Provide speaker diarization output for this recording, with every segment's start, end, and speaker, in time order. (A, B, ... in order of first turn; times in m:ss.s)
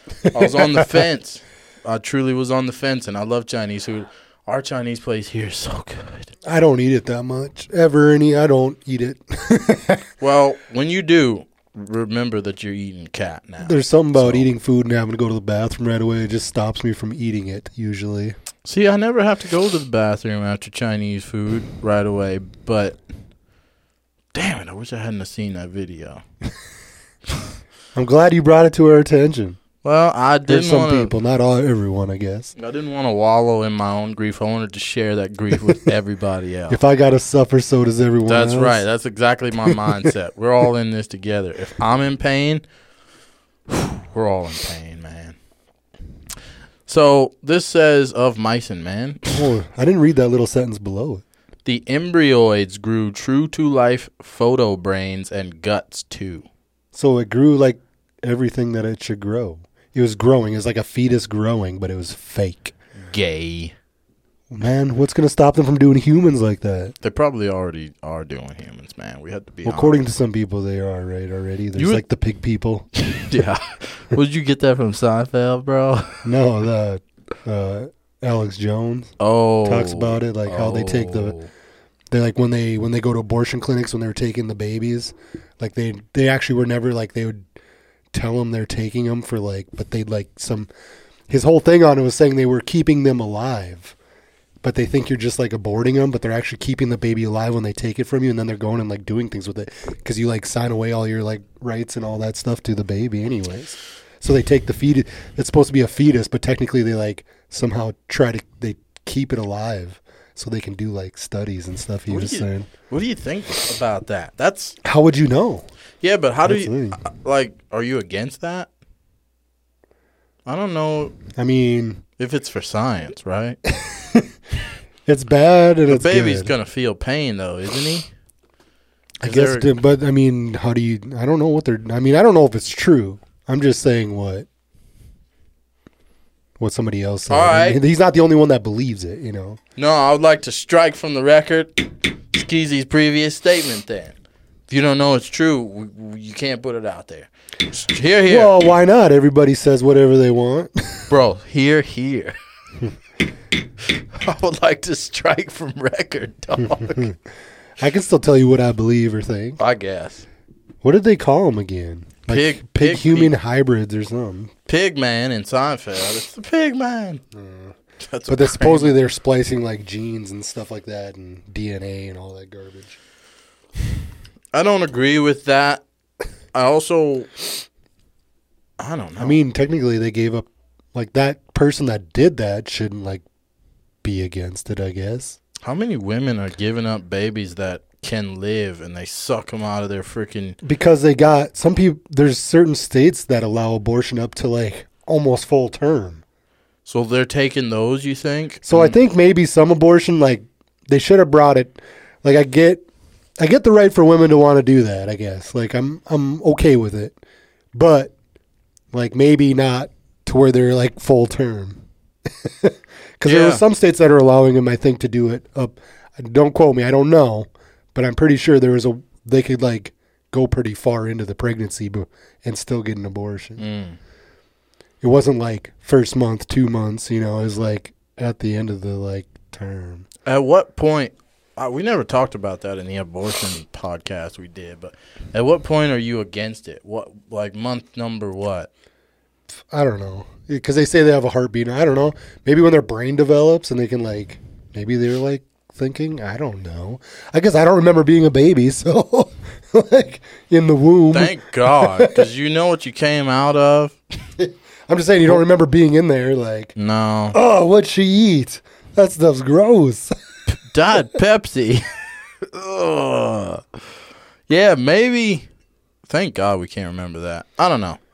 0:00.3-0:06.3 A
0:06.5-0:10.0 B
0:10.2-0:14.5 A
0:13.6-0:18.4 B
0:18.6-0:23.0 A
0:24.3-0:26.2 A
0:28.0-0:29.6 B
0:29.8-0:31.2 A
0:30.5-0:32.5 B
0:32.6-0:36.8 A
0:35.6-0:35.9 B
0:36.7-0:38.8 B
0:38.3-0:42.6 A
0:43.7-0:45.4 A
0:46.9-0:49.4 A
0:49.3-0:51.2 B
0:51.6-0:56.5 A
0:56.9-1:02.7 B
1:03.0-1:03.8 A
1:04.5-1:07.0 B
1:07.0-1:10.0 A
1:09.6-1:12.9 B
1:11.8-1:12.0 A
1:13.0-1:16.2 A
1:16.2-1:19.1 B
1:19.2-1:21.5 A
1:19.6-1:21.4 B
1:22.1-1:27.5 B
1:28.1-1:30.7 B
1:31.3-1:34.0 B
1:34.6-1:52.7 B
1:52.1-1:54.8 A
1:54.8-1:55.7 B
1:56.0-1:58.7 A
1:56.4-1:57.0 B
2:00.5-2:01.2 A
2:01.4-2:02.0 B
2:02.2-2:03.6 A
2:03.8-2:04.2 B
2:05.1-2:06.5 B
2:05.9-2:08.1 A
2:09.2-2:14.5 B
2:09.2-2:09.7 A
2:16.6-2:19.6 B
2:17.3-2:17.8 A
2:19.8-2:24.2 A
2:24.7-2:28.6 A
2:28.3-2:31.1 B
2:31.1-2:32.4 A
2:34.1-2:37.1 A
2:36.7-2:37.2 B
2:37.8-2:39.6 B
2:39.6-2:40.3 A
2:40.8-2:44.5 B
2:42.3-2:43.4 A
2:44.7-2:47.2 A
2:47.3-2:53.0 B
2:48.0-2:49.0 A
2:54.5-2:55.8 A
2:56.5-2:57.3 A
2:58.8-2:59.4 A
2:59.2-3:03.2 B
3:04.0-3:05.4 B
3:05.6-3:10.6 A
3:10.6-3:16.2 B
3:16.8-3:19.0 A
3:18.7-3:22.9 B
3:23.4-3:27.2 B
3:27.7-3:28.1 B
3:28.9-3:31.8 B
3:32.4-3:43.6 B
3:33.2-3:33.6 A
3:43.6-3:44.0 A
3:45.0-3:50.1 B
3:50.3-3:58.7 A
3:59.7-4:12.3 B
4:11.1-4:14.0 A
4:14.4-4:16.7 B
4:16.8-4:17.4 A
4:17.3-4:20.1 B
4:20.7-4:21.8 A
4:22.5-4:23.6 A
4:24.5-4:25.5 A
4:26.1-4:28.0 A